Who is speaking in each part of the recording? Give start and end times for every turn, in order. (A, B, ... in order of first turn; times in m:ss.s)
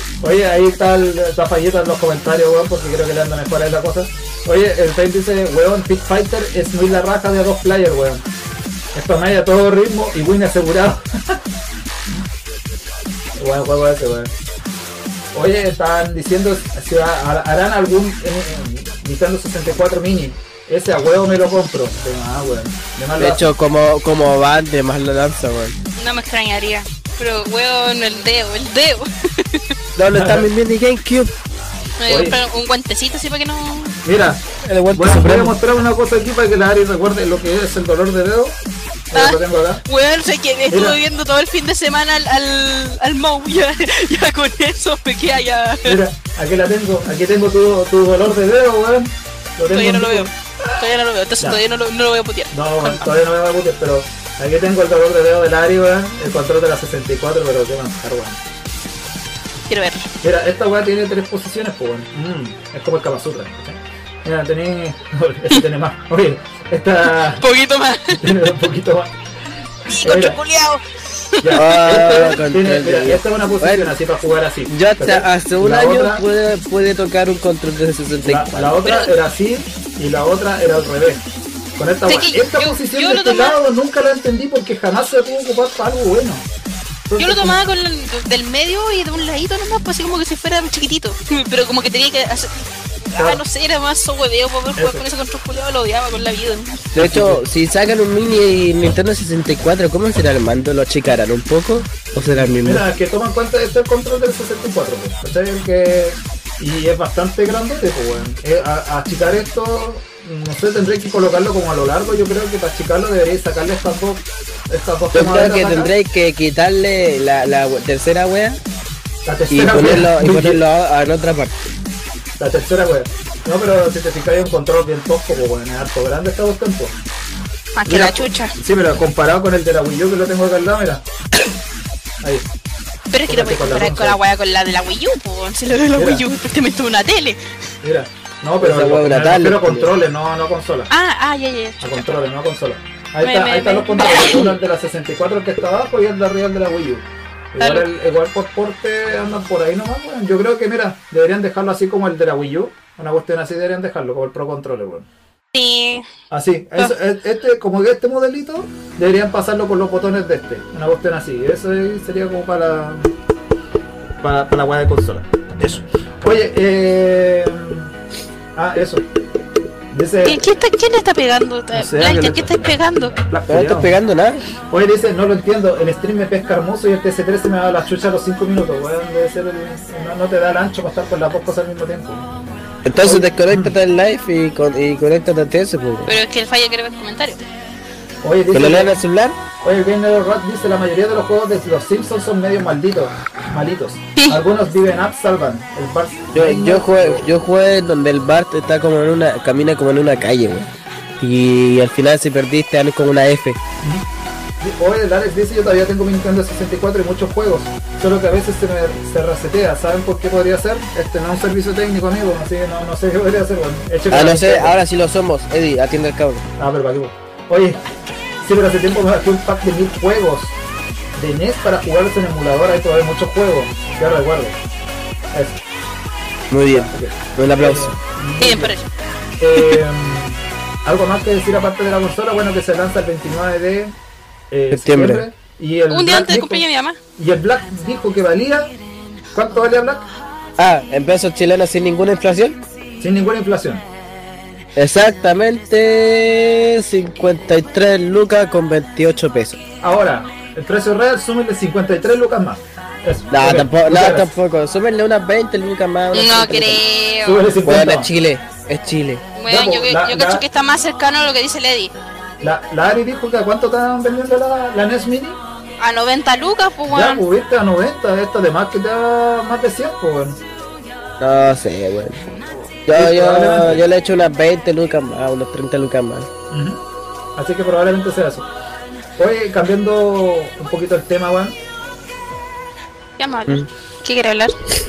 0:00.2-0:08.2 A
0:08.9-0:11.4 A
0:13.4-0:14.3 A
0:15.3-0:23.5 A
0:23.2-0:25.7 B
0:26.0-0:29.7 C
0:30.0-0:31.3 B
0:30.1-0:30.5 A
0:32.0-0:34.0 C
0:32.0-0:32.4 A
0:34.0-0:38.6 A
0:34.6-0:35.6 B
0:39.1-0:39.8 A
0:39.1-0:46.0 C
0:40.7-0:41.0 A
0:45.8-0:50.8 A
0:49.7-0:53.1 C
0:52.5-0:58.4 A
0:59.7-1:00.1 C
1:00.2-1:07.4 A
1:07.1-1:08.2 C
1:08.1-1:09.1 A
1:09.8-1:10.4 A
1:09.9-1:11.6 C
1:11.4-1:16.2 A
1:11.5-1:13.9 B
1:14.7-1:18.8 B
1:18.2-1:21.2 A
1:18.8-1:19.1 C
1:21.8-1:26.4 A
1:22.1-1:23.6 C
1:27.1-1:27.6 A
1:27.2-1:36.9 C
1:33.1-1:33.4 A
1:34.8-1:35.0 A
1:36.9-1:37.4 A
1:36.9-1:42.8 B
1:42.2-1:55.9 A
1:55.1-1:58.6 B
1:59.2-2:00.6 A
1:59.5-2:01.6 B
2:02.4-2:06.9 A
2:07.8-2:08.5 C
2:07.8-2:11.0 A
2:12.2-2:12.5 A
2:13.1-2:17.4 C
2:13.3-2:14.2 A
2:15.9-2:16.2 A
2:17.8-2:20.9 A
2:18.6-2:19.9 B
2:20.9-2:22.0 C
2:21.8-2:35.1 A
2:23.2-2:24.6 C
2:27.6-2:27.9 C
2:35.5-2:36.0 C
2:36.3-2:43.1 A
2:44.2-2:47.9 A
2:48.5-2:49.0 A
2:49.9-2:50.4 A
2:50.2-2:53.1 C
2:51.7-2:53.9 A
2:53.5-2:54.4 B
2:54.7-3:02.3 A
3:02.8-3:06.1 B
3:03.0-3:03.7 A
3:06.1-3:07.4 C
3:08.2-3:09.0 A
3:08.5-3:09.4 B
3:09.6-3:17.3 A
3:16.3-3:20.7 B
3:21.2-3:23.6 B
3:24.6-3:34.8 A
3:34.1-3:36.5 B
3:36.6-3:37.8 A
3:38.4-3:40.6 A
3:41.1-3:44.6 A
3:45.3-3:45.6 A
3:46.5-3:47.9 B
3:46.7-3:48.7 A
3:48.4-3:48.9 C
3:49.4-3:53.9 A
3:54.5-3:56.6 A
3:54.7-3:55.2 B
3:55.9-3:57.0 C
3:57.2-3:58.7 A
3:59.3-4:00.0 A
4:00.6-4:02.6 B
4:03.0-4:03.8 A
4:04.8-4:09.6 B
4:09.8-4:14.3 A
4:13.3-4:16.8 B
4:16.1-4:17.4 C
4:17.2-4:18.1 A
4:17.6-4:19.2 B
4:19.4-4:21.9 C
4:19.5-4:20.4 A
4:22.4-4:25.4 A
4:25.8-4:27.2 C
4:26.9-4:30.4 A
4:31.2-4:32.2 B
4:32.9-4:36.3 B
4:32.9-4:33.8 A
4:36.5-4:36.8 A
4:37.4-4:38.5 A
4:39.2-4:41.6 A
4:43.2-4:44.5 C